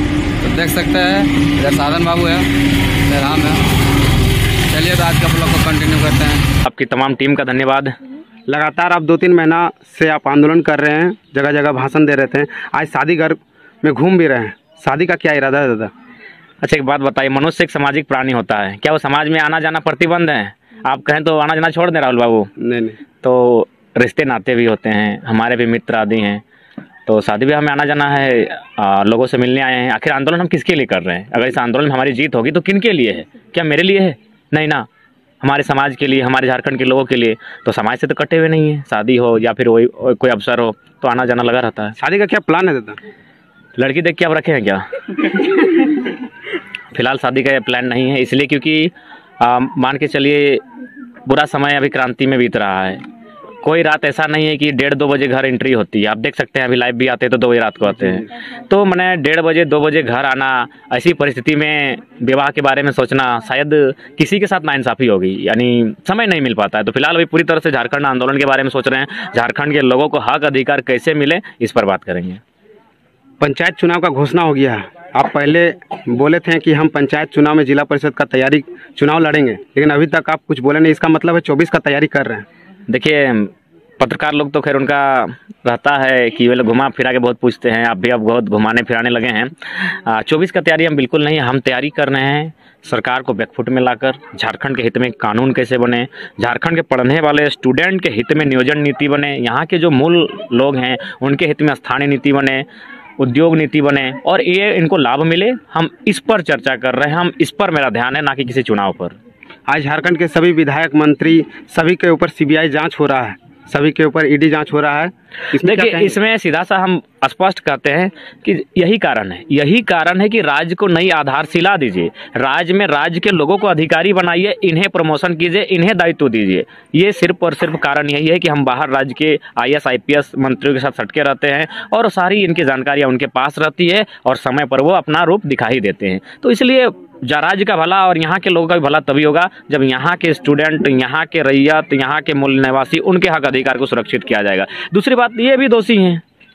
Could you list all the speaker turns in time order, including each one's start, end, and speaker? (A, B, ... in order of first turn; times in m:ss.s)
0:00.4-0:02.5 A
0:03.1-0:03.6 A
0:04.7-0:06.5 A
0:06.6-0:08.0 B
0:08.5-0:15.9 C
0:16.6-0:22.5 B
0:22.6-0:23.0 C
0:23.2-0:26.4 B
0:27.1-0:34.9 B
0:35.4-0:42.0 B
0:42.0-0:43.0 C
0:43.8-0:46.0 B
0:46.9-0:50.6 B
0:51.3-0:53.0 B
0:53.6-1:12.4 B
1:13.4-1:22.4 C
1:22.9-1:42.6 B
1:43.2-1:49.2 B
1:49.7-1:56.2 C
1:55.6-2:26.2 B